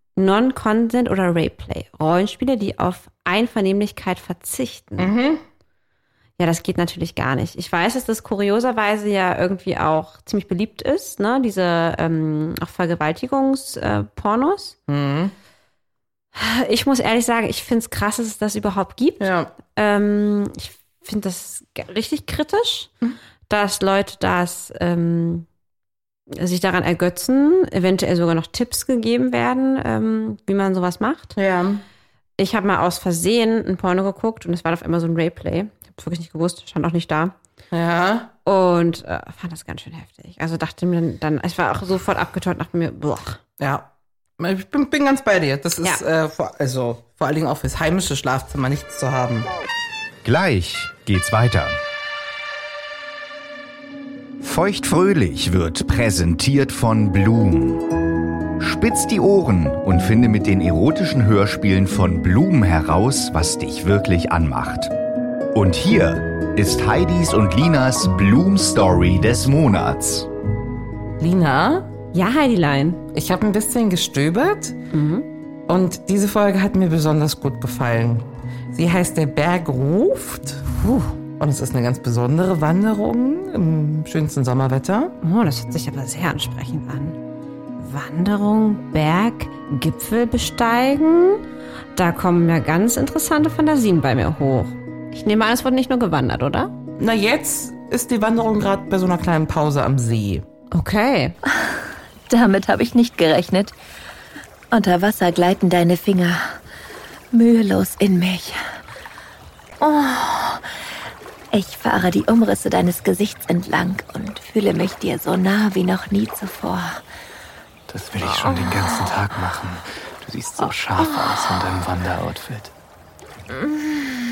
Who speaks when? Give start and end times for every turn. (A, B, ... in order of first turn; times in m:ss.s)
0:00.2-0:05.1 A
0:05.0-0:05.4 B
0:06.4-0:14.8 A
0:14.9-0:15.3 B
0:16.3-0:22.9 A
0:19.2-0:19.5 B
0:23.5-0:25.4 A
0:26.3-0:31.4 A
0:31.4-0:31.8 B
0:32.4-0:37.3 A
0:37.7-0:38.3 B
0:38.4-0:43.4 A
0:43.6-0:43.9 B
0:44.4-0:49.5 B
0:50.2-0:51.8 C
0:54.4-0:57.9 C
0:58.6-1:04.9 C
1:05.5-1:10.3 C
1:11.2-1:11.9 B
1:12.1-1:13.0 A
1:13.1-1:14.8 B
1:14.9-1:15.3 A
1:15.7-1:20.6 B
1:20.7-1:21.1 A
1:21.4-1:25.1 B
1:25.2-1:27.2 A
1:27.8-1:31.4 A
1:31.9-1:36.7 A
1:37.0-1:40.4 B
1:40.7-1:41.4 A
1:42.3-1:43.7 D
1:44.7-1:46.6 D
1:47.3-1:48.6 D
1:49.8-1:50.6 D
1:51.5-1:57.0 D
1:57.9-2:02.7 E